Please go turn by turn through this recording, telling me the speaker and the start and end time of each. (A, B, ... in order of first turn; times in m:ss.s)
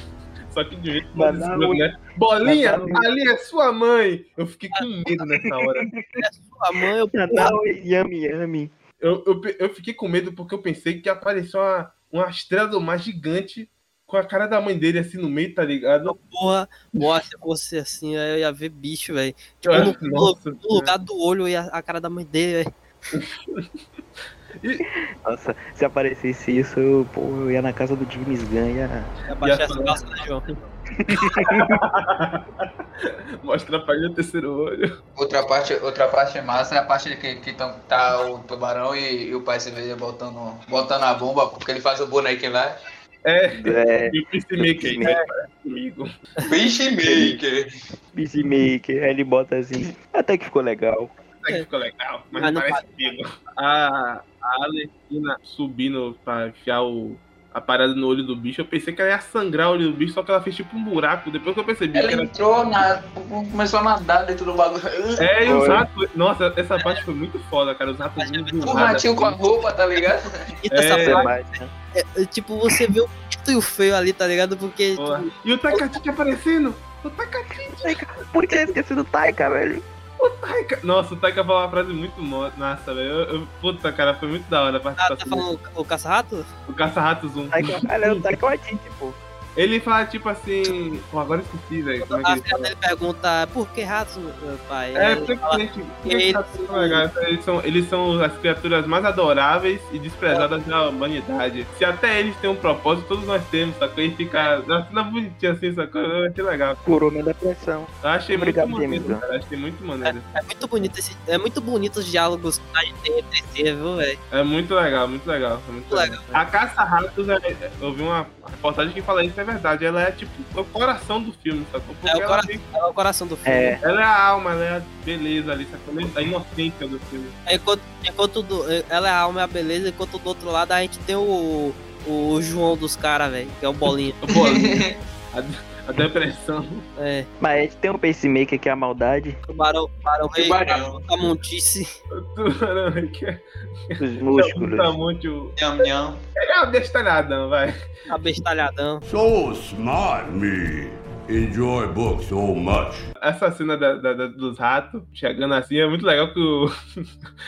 0:00.5-0:05.9 A
0:01.1-0:01.9 B
0:02.4-0:03.1 B
0:05.6-0:06.2 B
0:06.2-0:07.5 C
0:07.1-0:08.7 B
0:09.0-0:16.2 A
0:16.1-0:22.7 C
0:19.7-0:20.9 A
0:23.1-0:23.7 A
0:24.6-0:24.8 A
0:24.9-0:29.1 B
0:29.3-0:30.4 C
0:29.4-0:30.5 A
0:31.0-0:31.8 B
0:31.3-0:34.9 A
0:35.2-0:42.8 D
0:43.2-0:46.1 A
0:43.6-0:45.2 B
0:46.5-0:47.6 D
0:47.1-0:47.4 B
0:48.1-0:51.1 B
0:51.4-1:02.3 A
0:52.4-0:53.1 C
1:01.9-1:05.3 D
1:05.2-1:09.4 A
1:05.4-1:05.9 B
1:08.2-1:09.0 C
1:08.6-1:10.3 D
1:10.6-1:11.3 C
1:10.7-1:11.3 A
1:10.9-1:11.7 B
1:12.0-1:15.8 C
1:15.0-1:17.9 A
1:17.8-1:19.8 B
1:20.2-1:25.4 A
1:25.0-1:26.5 C
1:26.7-1:28.2 A
1:27.5-1:29.2 B
1:29.6-1:32.7 A
1:32.0-1:37.0 C
1:35.0-1:46.8 A
1:46.8-1:49.2 B
1:48.0-1:50.7 A
1:50.1-1:54.2 C
1:54.3-2:02.6 A
1:55.9-1:56.4 C
2:02.1-2:03.8 C
2:03.4-2:03.8 B
2:03.8-2:07.4 A
2:07.5-2:14.2 C
2:14.2-2:16.9 A
2:14.3-2:14.9 D
2:17.0-2:17.3 C
2:17.4-2:19.4 B
2:19.5-2:21.9 C
2:20.4-2:21.0 D
2:22.1-2:25.6 A
2:24.0-2:24.9 B
2:25.6-2:26.2 D
2:26.4-2:27.8 A
2:28.1-2:29.0 C
2:29.0-2:33.1 E
2:33.2-2:37.1 A